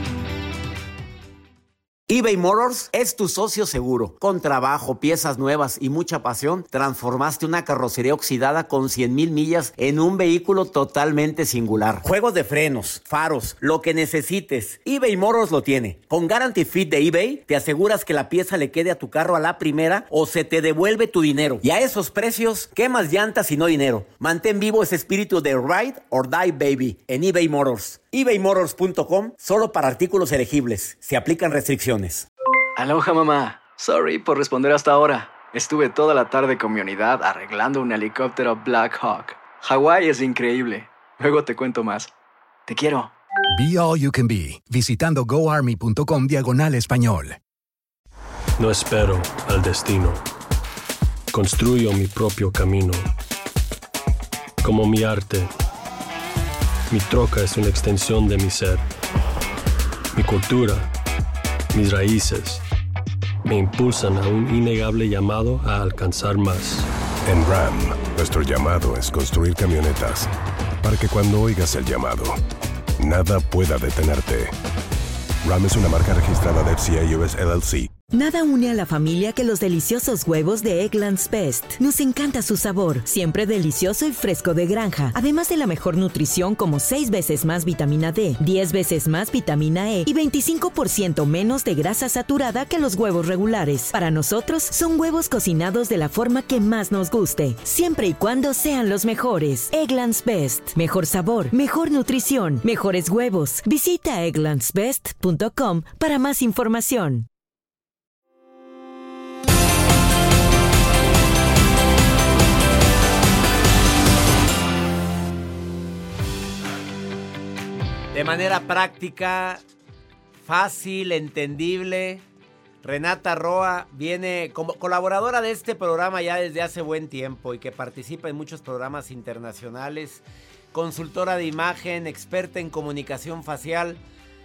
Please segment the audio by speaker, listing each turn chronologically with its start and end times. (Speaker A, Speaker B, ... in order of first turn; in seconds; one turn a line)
Speaker A: 2.1-32.3
Speaker B: 32.8-42.1
Speaker B: 42.7-43.1
Speaker C: 43.5-47.4
Speaker D: 48.6-50.2
Speaker D: 51.3-53.1
Speaker D: 54.6-55.5
Speaker D: 56.9-58.8
Speaker D: 60.1-60.9
Speaker D: 61.7-62.6
Speaker D: 63.5-66.9
Speaker E: 67.2-70.3
Speaker E: 70.8-72.4
Speaker E: 73.0-74.5
Speaker E: 75.4-77.9
Speaker F: 78.1-107.3
Speaker A: 118.1-119.6
Speaker A: 120.4-122.2
Speaker A: 122.8-134.0